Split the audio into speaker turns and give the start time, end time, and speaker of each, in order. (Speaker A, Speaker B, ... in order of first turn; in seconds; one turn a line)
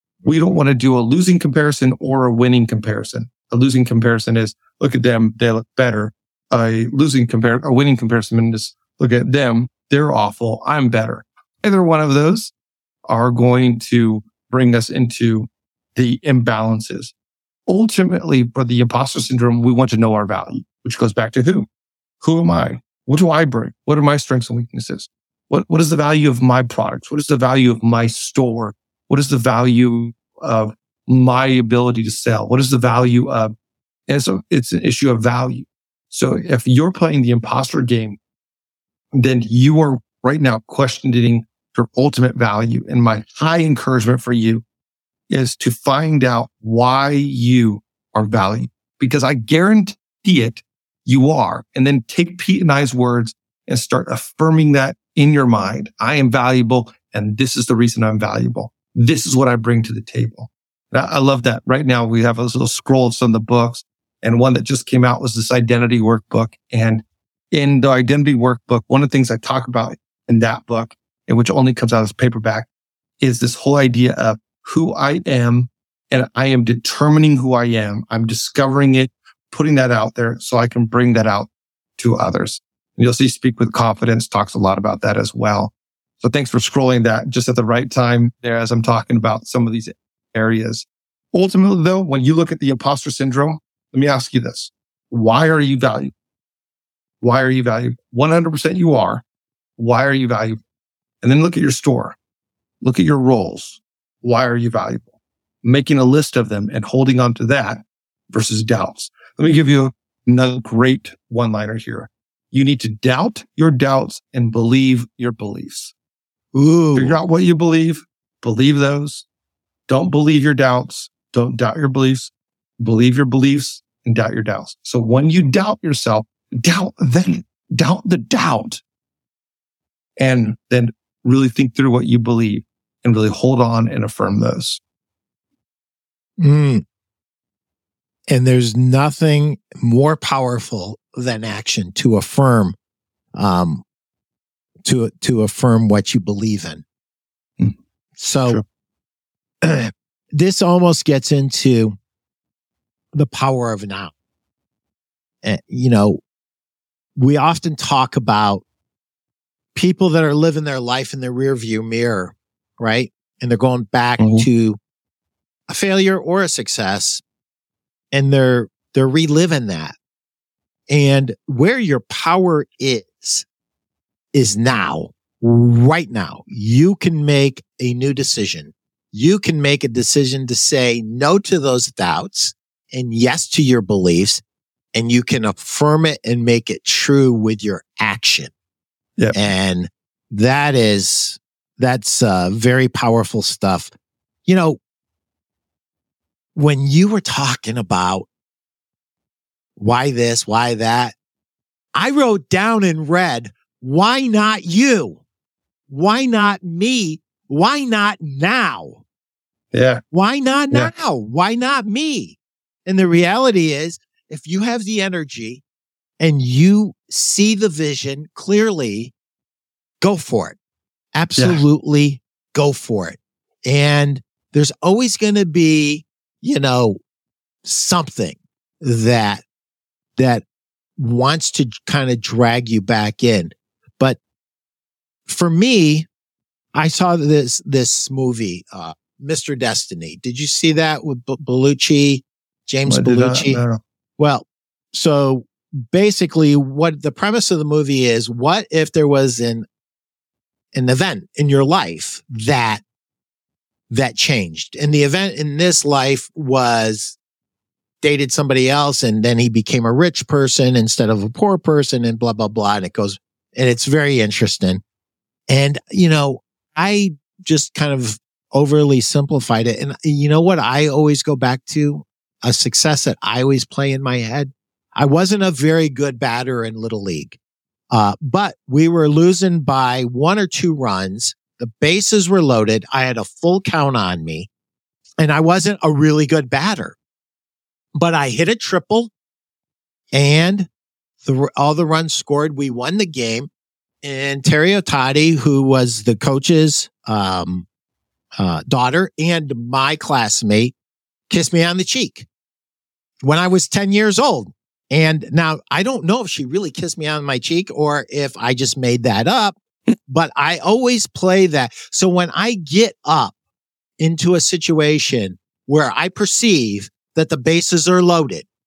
Speaker A: 0.2-12.5
Speaker A: 13.1-17.1
Speaker A: 17.7-21.7
Speaker A: 22.2-33.5
Speaker A: 34.1-38.2
Speaker A: 39.1-44.6
Speaker A: 45.3-72.7
Speaker A: 73.2-96.1
Speaker A: 97.2-99.2
Speaker A: 99.8-100.6
Speaker A: 101.2-102.2
Speaker A: 102.8-105.1
Speaker A: 105.6-115.9
Speaker B: 116.5-117.2
Speaker A: 117.0-119.2
Speaker A: 119.9-128.8
Speaker A: 130.2-134.8
Speaker B: 136.4-136.8
Speaker B: 138.3-142.8
Speaker B: 143.3-143.8
Speaker B: 144.8-146.8
Speaker B: 148.2-148.6
Speaker B: 149.6-152.0
Speaker B: 153.1-154.1
Speaker B: 155.4-156.2
Speaker B: 157.2-158.6
Speaker B: 159.8-164.8
Speaker A: 164.2-164.5
Speaker B: 165.7-167.2
Speaker B: 168.1-170.0
Speaker B: 170.9-173.5
Speaker B: 174.3-184.4
Speaker B: 184.9-188.5
Speaker B: 189.3-193.9
Speaker B: 194.5-194.8
Speaker B: 196.6-198.3
Speaker B: 199.8-201.2
Speaker B: 201.9-205.2
Speaker B: 205.9-209.0
Speaker A: 209.7-210.0
Speaker B: 210.1-215.6
Speaker B: 216.2-219.1
Speaker B: 220.0-220.6
Speaker B: 221.2-227.0
Speaker A: 221.4-221.6
Speaker B: 227.7-229.4
Speaker B: 230.2-230.4
Speaker B: 231.0-234.2
Speaker B: 235.3-236.1
Speaker B: 236.7-243.6
Speaker A: 242.9-243.8
Speaker B: 244.2-249.7
Speaker B: 250.7-252.8
Speaker B: 253.9-257.2
Speaker B: 258.0-264.8
Speaker B: 265.5-277.4
Speaker B: 277.9-284.5
Speaker B: 285.2-287.0
Speaker B: 287.9-289.1
Speaker B: 290.1-290.7
Speaker B: 291.2-293.5
Speaker B: 294.0-297.7
Speaker B: 298.4-300.7
Speaker B: 301.3-302.3
Speaker B: 303.2-313.4
Speaker B: 314.0-318.5